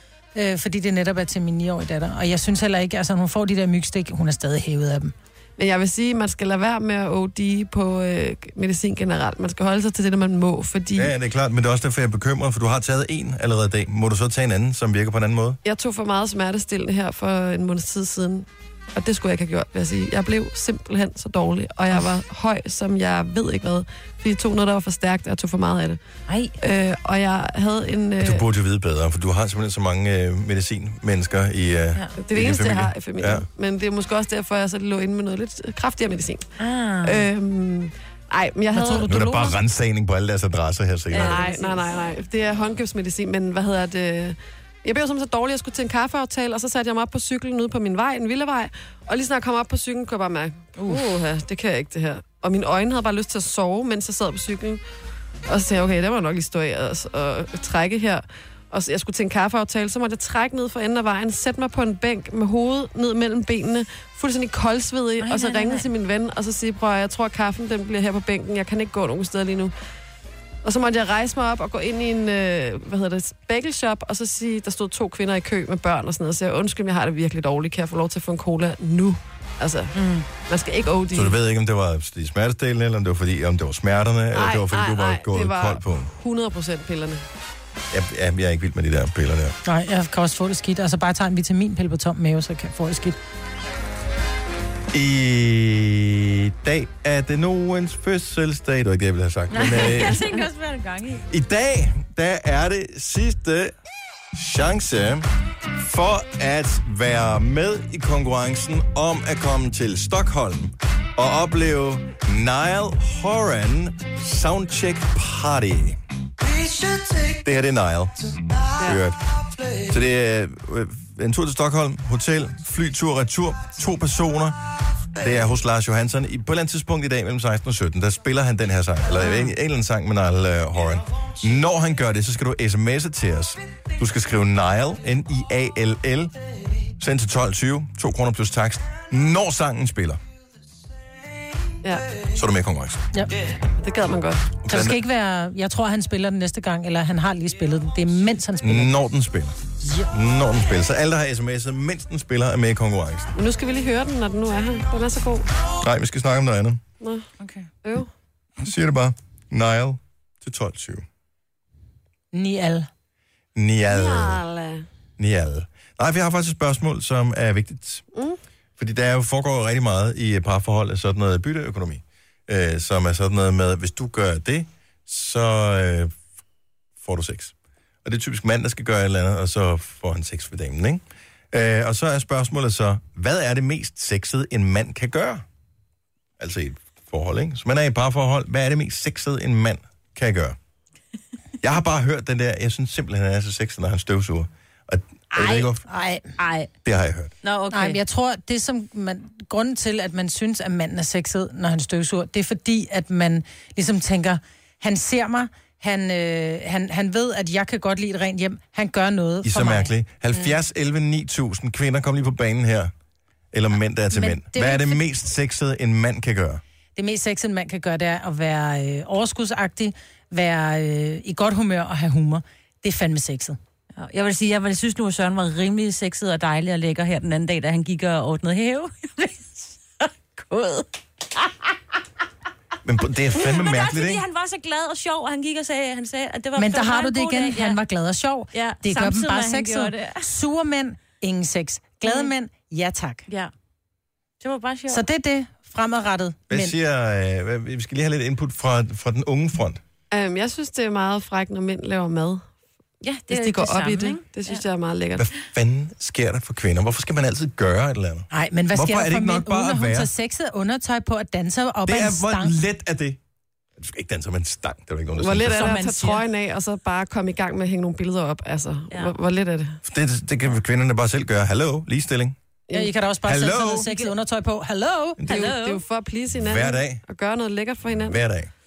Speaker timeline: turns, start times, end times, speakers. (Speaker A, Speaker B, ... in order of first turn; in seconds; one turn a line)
Speaker A: 0.3-5.1
Speaker B: 5.6-11.1
Speaker C: 11.0-15.6
Speaker B: 15.7-26.0
Speaker D: 26.3-26.5
Speaker B: 26.6-28.4
Speaker C: 28.2-33.5
Speaker B: 32.2-36.5
Speaker D: 36.6-37.3
Speaker B: 37.0-39.1
Speaker A: 38.7-39.6
Speaker C: 39.0-41.4
Speaker D: 41.1-42.0
Speaker B: 41.2-54.8
Speaker D: 50.8-51.1
Speaker B: 55.5-69.7
Speaker D: 65.2-65.9
Speaker B: 70.6-81.4
Speaker D: 80.0-80.3
Speaker C: 81.1-86.1
Speaker B: 84.3-87.2
Speaker C: 87.9-89.6
Speaker A: 89.7-93.2
Speaker C: 94.9-100.3
Speaker D: 99.5-101.2
Speaker C: 101.3-103.8
Speaker C: 104.3-116.0
Speaker C: 117.2-119.2
Speaker C: 119.9-124.6
Speaker C: 125.2-136.3
Speaker C: 137.0-140.2
Speaker C: 142.3-143.1
Speaker B: 143.8-144.5
Speaker C: 144.6-145.0
Speaker A: 144.7-148.9
Speaker C: 148.6-149.6
Speaker A: 149.8-150.1
Speaker C: 150.1-153.3
Speaker B: 153.3-155.5
Speaker C: 155.8-156.8
Speaker B: 157.0-157.3
Speaker D: 157.4-157.7
Speaker B: 157.8-158.1
Speaker C: 158.6-161.1
Speaker A: 162.3-162.9
Speaker C: 163.6-164.4
Speaker B: 163.9-164.9
Speaker C: 165.2-168.1
Speaker C: 168.8-176.1
Speaker C: 177.0-185.4
Speaker C: 186.4-190.6
Speaker C: 191.6-195.8
Speaker A: 195.4-196.3
Speaker D: 196.4-196.7
Speaker C: 196.8-197.3
Speaker D: 197.4-198.0
Speaker A: 197.7-209.9
Speaker C: 209.4-212.9
Speaker C: 213.5-216.6
Speaker A: 214.1-215.0
Speaker A: 217.0-223.6
Speaker D: 224.0-230.9
Speaker C: 232.8-234.2
Speaker D: 233.4-237.8
Speaker A: 236.6-243.3
Speaker D: 238.5-240.3
Speaker D: 242.0-242.3
Speaker D: 244.4-245.0
Speaker A: 244.9-246.8
Speaker C: 246.5-249.8
Speaker B: 250.1-252.5
Speaker D: 253.0-254.6
Speaker B: 253.3-255.3
Speaker C: 255.2-260.1
Speaker A: 258.3-262.6
Speaker C: 261.9-263.2
Speaker C: 263.8-265.7
Speaker B: 265.2-269.8
Speaker D: 265.5-266.2
Speaker C: 269.9-272.4
Speaker A: 272.7-275.2
Speaker C: 273.3-273.9
Speaker D: 275.3-275.8
Speaker B: 275.3-278.2
Speaker C: 276.4-277.0
Speaker C: 278.0-278.5